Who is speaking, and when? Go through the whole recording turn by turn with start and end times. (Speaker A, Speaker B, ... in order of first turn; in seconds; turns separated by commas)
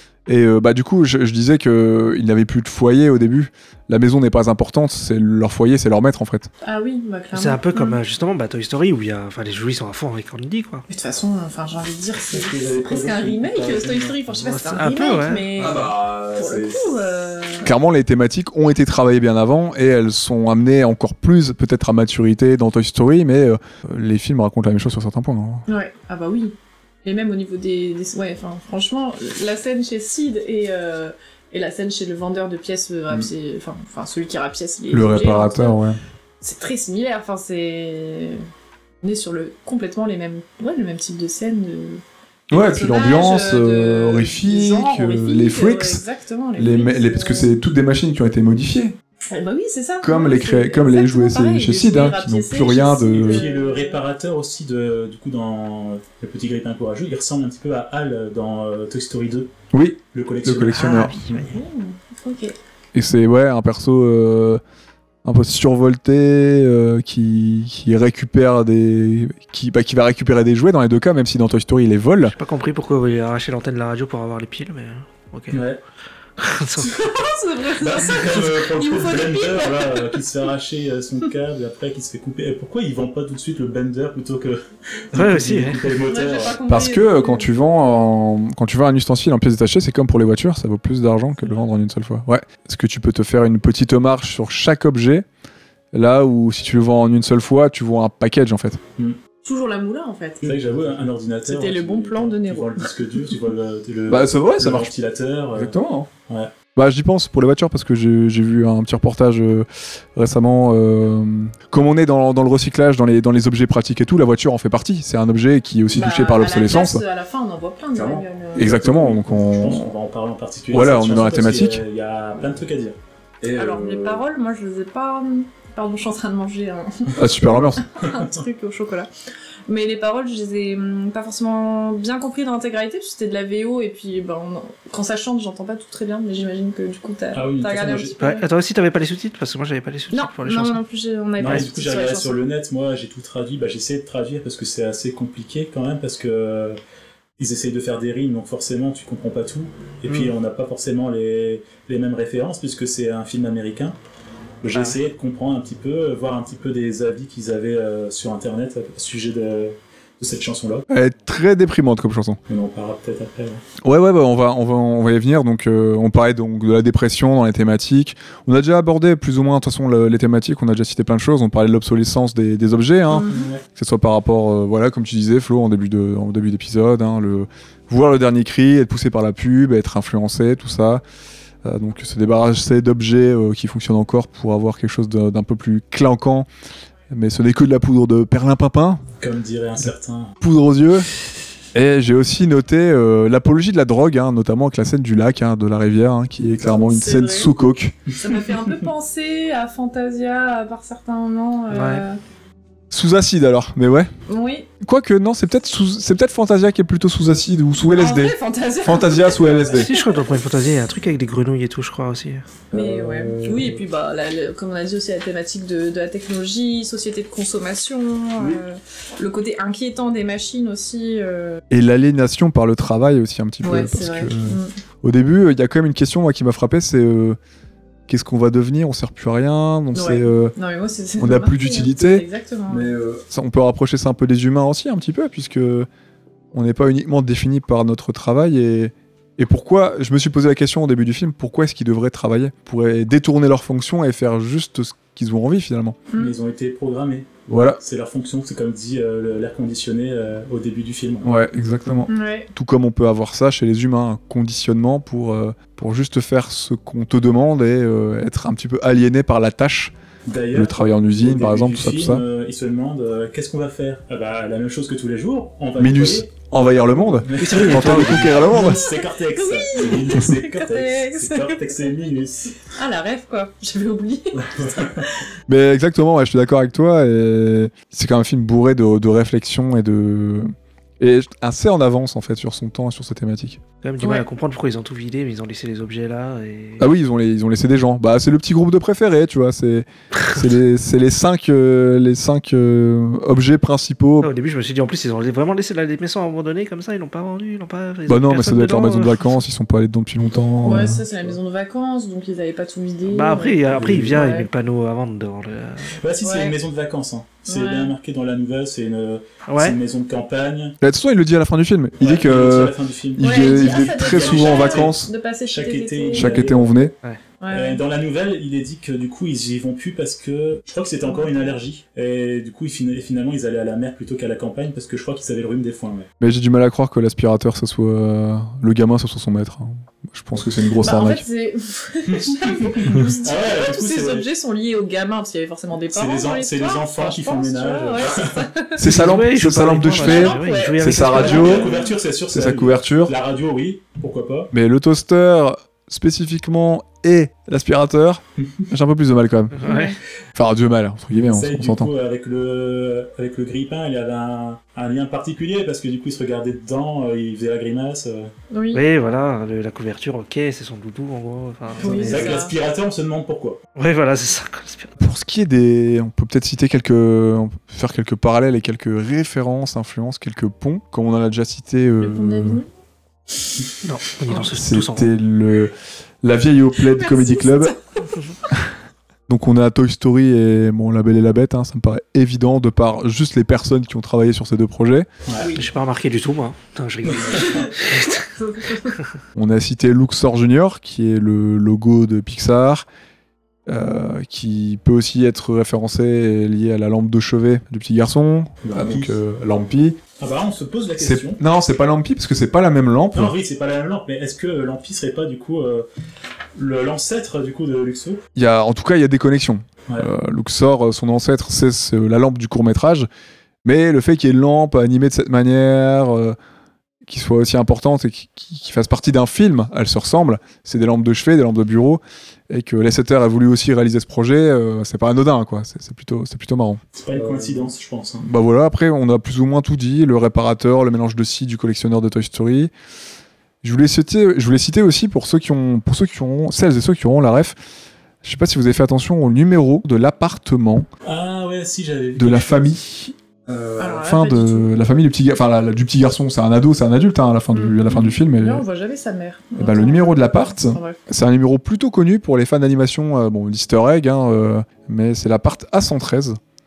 Speaker A: 0.3-6.5, Speaker B: 6.6-8.0, Speaker C: 7.3-10.8, Speaker B: 10.9-17.7, Speaker D: 12.3-14.2, Speaker C: 14.4-15.5, Speaker A: 15.6-16.8, Speaker A: 17.6-25.7, Speaker B: 25.7-35.8, Speaker A: 34.9-36.0, Speaker B: 36.4-38.4, Speaker B: 39.0-47.5, Speaker A: 42.5-46.0, Speaker A: 46.6-49.0, Speaker B: 49.3-54.0, Speaker A: 50.0-53.5, Speaker D: 53.1-59.5, Speaker A: 59.7-61.4, Speaker D: 60.1-61.0, Speaker B: 60.8-62.5, Speaker C: 60.9-61.4, Speaker A: 62.9-64.6, Speaker A: 65.2-72.3, Speaker C: 72.3-75.6, Speaker D: 75.5-75.8, Speaker C: 76.4-77.0, Speaker B: 76.8-80.1, Speaker D: 77.8-86.6, Speaker C: 85.2-85.9, Speaker B: 86.0-87.5, Speaker A: 86.7-95.2, Speaker A: 95.9-98.8, Speaker B: 99.4-100.6, Speaker D: 100.4-105.8, Speaker B: 101.5-102.9, Speaker A: 104.1-104.9, Speaker A: 105.5-106.1, Speaker A: 106.8-117.0, Speaker B: 115.9-118.8, Speaker D: 118.0-123.0, Speaker A: 118.0-119.9, Speaker A: 120.7-121.8, Speaker A: 123.4-124.2, Speaker B: 123.5-129.1, Speaker A: 127.2-127.9, Speaker D: 127.3-128.4, Speaker B: 129.7-138.4, Speaker D: 137.3-138.2, Speaker C: 138.2-140.8, Speaker B: 140.1-142.4, Speaker D: 141.4-146.8, Speaker D: 147.4-154.0, Speaker D: 154.6-160.9, Speaker A: 160.9-162.4, Speaker D: 162.5-163.6, Speaker A: 163.8-181.0, Speaker B: 173.1-173.4, Speaker D: 173.2-173.6, Speaker A: 181.6-186.5, Speaker A: 187.1-189.0, Speaker D: 189.2-190.4, Speaker A: 190.4-191.1, Speaker A: 191.7-198.0, Speaker B: 196.6-197.5, Speaker B: 198.2-202.2, Speaker C: 201.7-202.1, Speaker A: 202.9-204.1, Speaker B: 204.3-204.7, Speaker A: 204.8-209.9, Speaker B: 207.8-210.2, Speaker C: 209.7-212.5, Speaker A: 212.7-213.7, Speaker D: 212.7-213.6, Speaker B: 212.7-221.6, Speaker A: 221.7-227.4, Speaker B: 223.6-224.7, Speaker A: 228.1-230.6, Speaker B: 229.9-232.9, Speaker A: 231.2-235.9, Speaker A: 236.5-246.0, Speaker D: 246.2-251.4, Speaker A: 247.5-247.8, Speaker A: 251.2-259.9, Speaker B: 252.1-252.5, Speaker D: 260.3-272.6, Speaker A: 260.5-262.2, Speaker A: 265.8-268.9, Speaker C: 267.4-268.5, Speaker B: 268.5-271.7, Speaker B: 272.7-275.1, Speaker D: 274.4-275.1, Speaker A: 275.5-280.5, Speaker A: 281.0-283.6, Speaker C: 283.8-286.9, Speaker B: 284.0-284.3, Speaker A: 286.8-294.3, Speaker C: 294.2-299.4, Speaker A: 298.1-301.0, Speaker B: 300.6-304.5, Speaker D: 300.7-301.3, Speaker C: 303.1-306.0, Speaker D: 303.7-304.2, Speaker D: 306.0-310.8, Speaker B: 306.2-306.6, Speaker B: 307.5-307.9, Speaker C: 309.5-309.8, Speaker A: 310.8-315.1, Speaker D: 312.0-316.7, Speaker B: 313.2-316.5, Speaker A: 316.1-316.9, Speaker B: 317.4-317.8, Speaker D: 317.5-326.1, Speaker B: 321.1-321.5, Speaker A: 326.2-331.2, Speaker B: 330.8-338.9, Speaker D: 332.1-334.3, Speaker D: 335.9-338.5, Speaker A: 338.8-341.7, Speaker C: 338.8-341.6, Speaker B: 339.9-342.0, Speaker D: 341.1-344.5, Speaker A: 342.3-343.1, Speaker A: 344.5-349.6, Speaker C: 349.5-350.0, Speaker B: 349.6-350.0, Speaker A: 350.4-351.9, Speaker D: 351.3-358.3, Speaker B: 358.5-358.8, Speaker C: 358.7-362.4, Speaker B: 361.8-362.5, Speaker D: 362.0-363.6, Speaker C: 363.8-364.9, Speaker A: 365.0-372.6, Speaker B: 372.0-372.7, Speaker C: 373.8-375.1, Speaker A: 374.5-377.8, Speaker B: 376.9-378.1, Speaker A: 379.3-385.1, Speaker D: 385.3-385.5, Speaker C: 385.5-388.2, Speaker D: 387.1-387.6, Speaker B: 387.4-389.0, Speaker A: 389.4-392.9, Speaker A: 393.7-400.0, Speaker D: 398.6-399.2, Speaker D: 400.2-401.4, Speaker A: 401.0-403.3, Speaker D: 403.1-405.9, Speaker D: 406.6-408.2, Speaker A: 408.4-413.1, Speaker A: 413.6-416.4, Speaker A: 417.1-427.7, Speaker D: 426.9-428.3, Speaker A: 428.2-432.7, Speaker A: 433.6-437.6, Speaker A: 438.2-440.9, Speaker D: 441.1-442.8, Speaker A: 442.2-448.6, Speaker B: 443.8-444.7, Speaker B: 447.5-451.0, Speaker A: 449.6-456.4